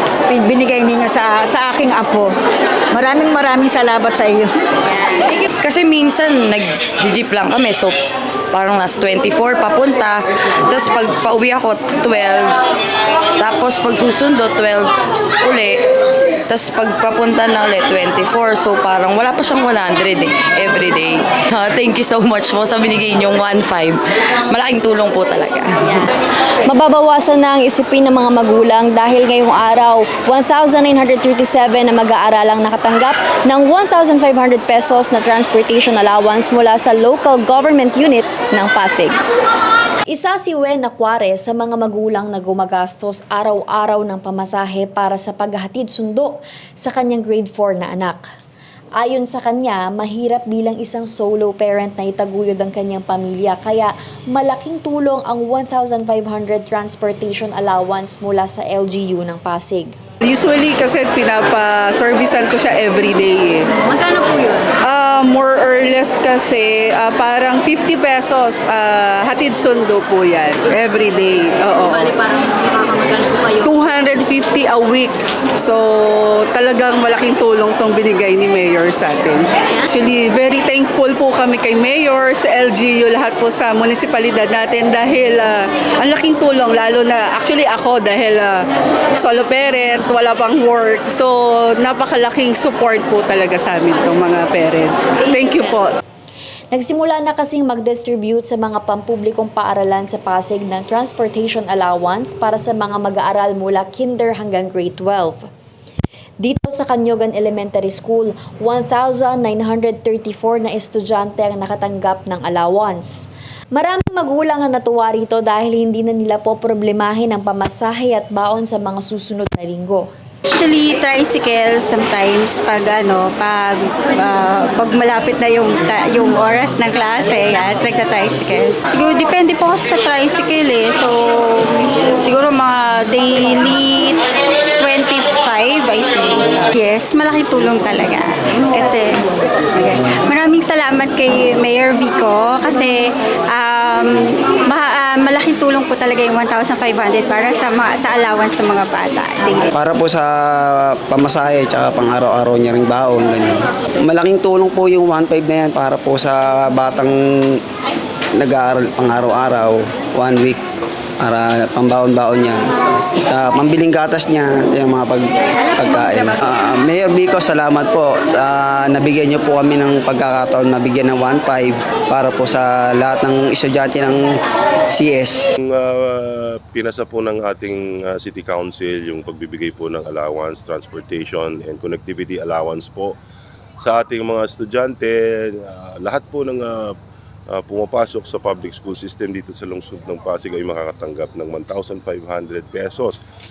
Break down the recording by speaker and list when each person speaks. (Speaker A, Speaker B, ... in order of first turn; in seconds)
Speaker A: 0.3-2.3, 2.9-4.5
Speaker B: 5.6-8.0, 8.5-12.6, 13.4-15.8, 16.5-26.1
Speaker C: 26.7-39.2, 40.1-48.2, 49.0-59.9, 96.7-105.5, 106.4-120.1
Speaker D: 60.2-63.6, 64.8-72.8, 73.5-88.6, 89.2-96.0
Speaker E: 120.5-134.2, 134.8-143.0, 143.5-149.7
Speaker F: 149.7-157.6, 158.4-160.6, 161.2-162.7, 163.3-174.4, 174.9-175.4
Speaker G: 175.6-183.2, 183.8-186.9, 187.5-193.2